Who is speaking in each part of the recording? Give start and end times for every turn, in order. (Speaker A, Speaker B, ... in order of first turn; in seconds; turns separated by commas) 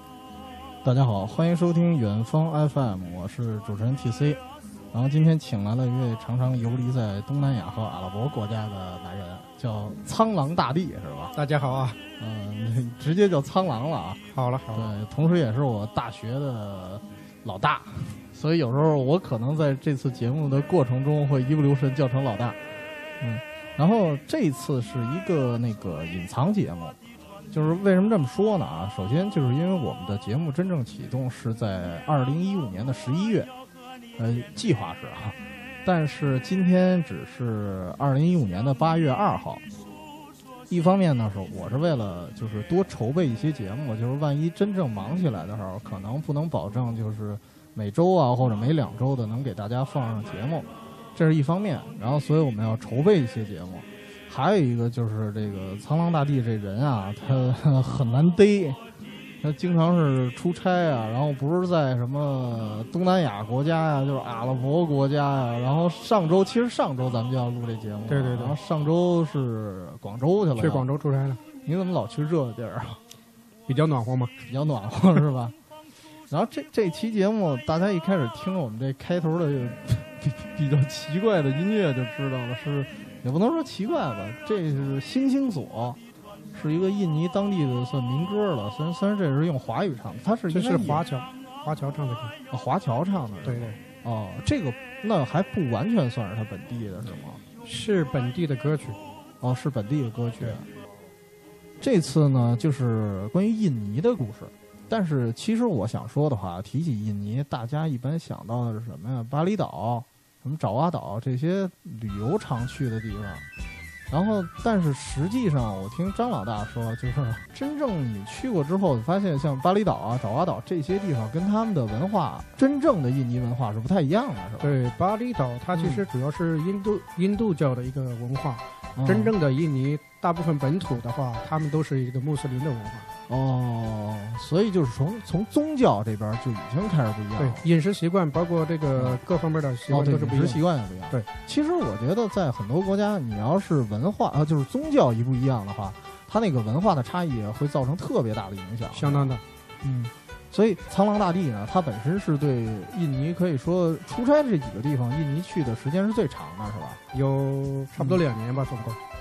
Speaker A: 0.8-11.3, Speaker B: 11.3-12.0, Speaker A: 12.2-22.6, Speaker B: 14.3-14.9, Speaker A: 23.2-27.0, Speaker A: 27.5-33.5, Speaker A: 34.2-39.6, Speaker A: 40.7-58.8, Speaker A: 59.4-70.9, Speaker B: 68.1-68.5, Speaker B: 70.5-71.4, Speaker A: 71.6-73.0, Speaker B: 73.7-74.3, Speaker A: 74.5-75.6, Speaker A: 76.3-86.0, Speaker A: 86.5-91.0, Speaker B: 90.5-92.3, Speaker A: 92.5-97.4, Speaker B: 93.4-93.8, Speaker B: 97.6-99.0, Speaker A: 99.4-100.7, Speaker A: 101.8-113.4, Speaker A: 114.1-124.7, Speaker B: 124.6-133.1, Speaker A: 125.7-126.0, Speaker A: 128.9-129.3, Speaker A: 133.3-137.6, Speaker B: 137.4-141.2, Speaker A: 139.9-157.0, Speaker B: 148.9-149.4, Speaker B: 157.1-159.0